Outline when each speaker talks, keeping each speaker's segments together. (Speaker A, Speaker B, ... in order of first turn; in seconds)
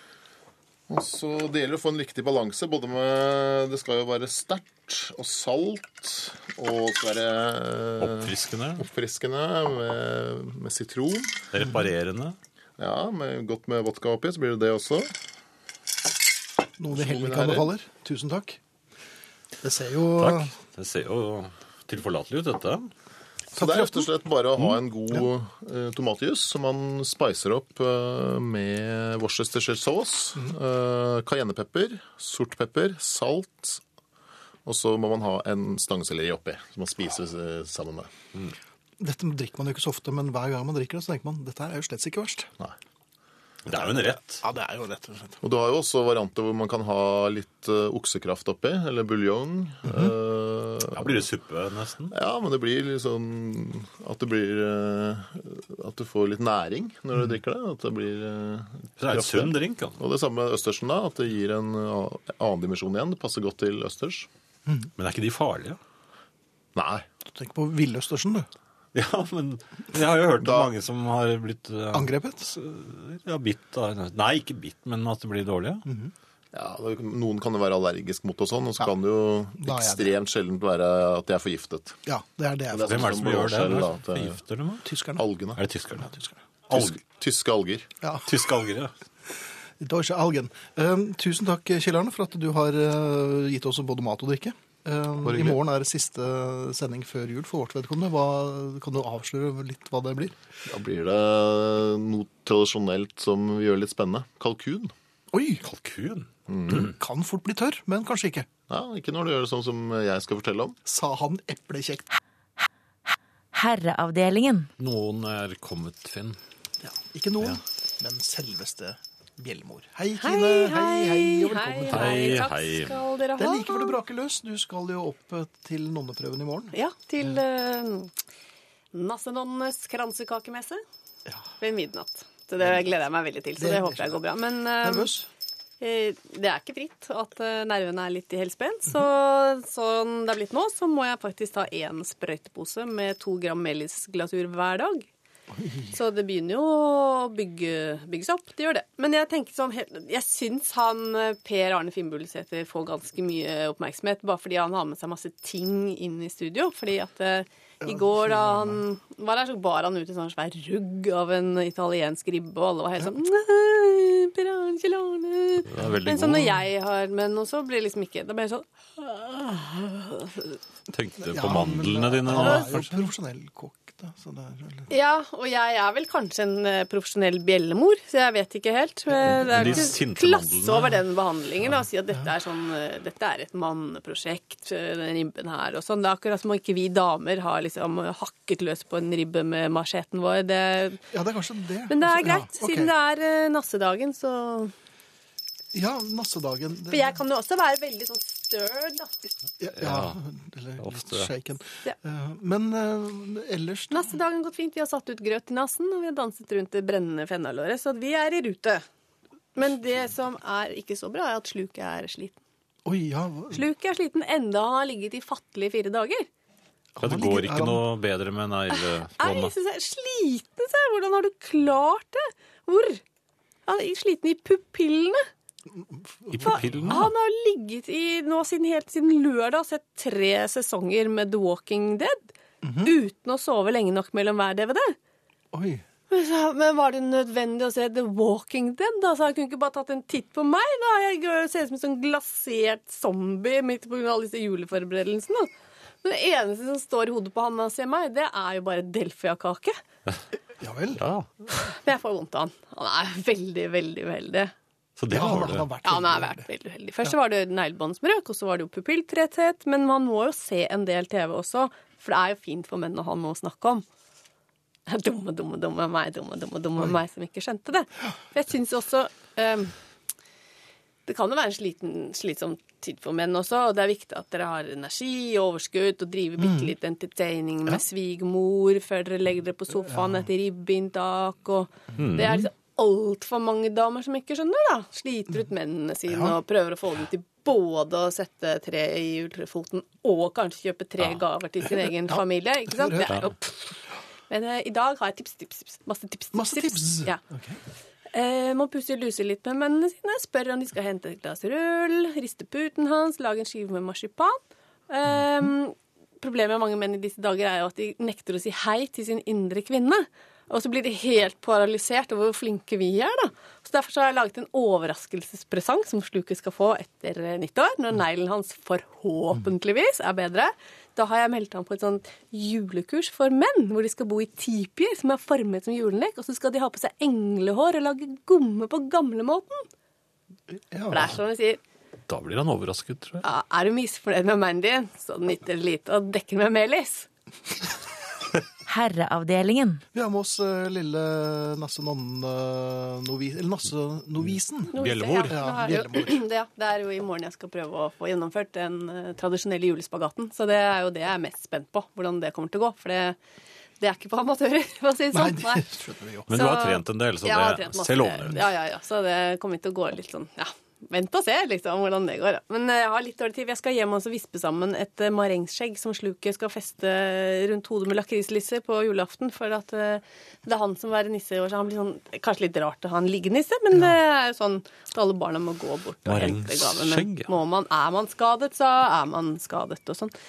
Speaker A: 0.9-11.4, 12.8-15.1, 16.9-17.7, 23.5-33.8, 34.7-38.1, 45.4-51.2, 52.1-64.3, 66.8-67.1, 70.4-70.7, 76.5-82.0, 82.7-84.4, 85.2-85.6, 86.7-87.9, 95.2-95.6, 100.7-104.9, 106.5-106.9, 108.7-110.8
Speaker B: 8.0-8.9, 11.5-12.4, 20.2-22.9, 43.6-44.4, 50.9-52.1, 59.0-60.0, 65.0-65.8, 68.9-75.8, 82.8-84.9, 85.6-86.1, 86.7-87.0, 88.3-88.9, 105.6-106.3, 114.8-116.4, 121.9-122.9, 165.7-166.6, 170.9-172.9, 179.2-180.9, 199.8-200.2, 200.8-201.3, 217.0-219.5, 226.3-227.1, 251.0-251.3, 255.0-255.7, 282.0-282.5, 332.1-333.2, 344.7-345.4, 356.3-358.4, 376.1-377.3
Speaker C: 16.8-18.6, 19.6-20.5, 23.6-24.1, 39.0-42.5, 43.7-45.4, 67.2-68.5, 71.9-72.5, 75.9-76.1, 79.6-80.2, 82.1-83.1, 84.8-85.2, 86.0-86.4, 89.8-100.3, 105.3-105.6, 106.7-108.5, 110.9-112.1, 116.8-122.4, 123.4-126.7, 133.6-134.2, 134.8-135.3, 145.6-145.9, 157.8-158.8, 171.2-174.9, 191.1-192.9, 195.7-197.2, 199.6-204.1, 212.9-213.6, 217.0-217.9, 225.8-227.1, 232.6-232.9, 235.5-235.8, 250.6-251.0, 255.1-256.5, 292.1-293.1, 296.3-297.6, 330.5-331.1, 339.9-346.2, 355.1-356.3
Speaker D: 113.5-114.7, 338.7-339.8
Speaker E: 120.2-124.0, 126.7-128.1, 128.9-130.8, 131.6-135.1, 135.8-145.1, 145.9-170.6, 174.9-191.0, 191.9-194.7, 196.9-199.1, 203.9-208.8, 209.6-212.4, 213.5-216.3, 218.7-223.0, 223.7-225.2, 226.4-232.3, 232.8-235.0, 236.1-245.5, 246.0-249.8, 251.5-254.5, 255.8-263.9, 264.9-269.7, 271.1-293.7, 294.3-297.2, 298.1-329.7, 330.9-331.6, 333.2-337.1, 344.7-353.2, 353.8-355.7, 356.3-380.1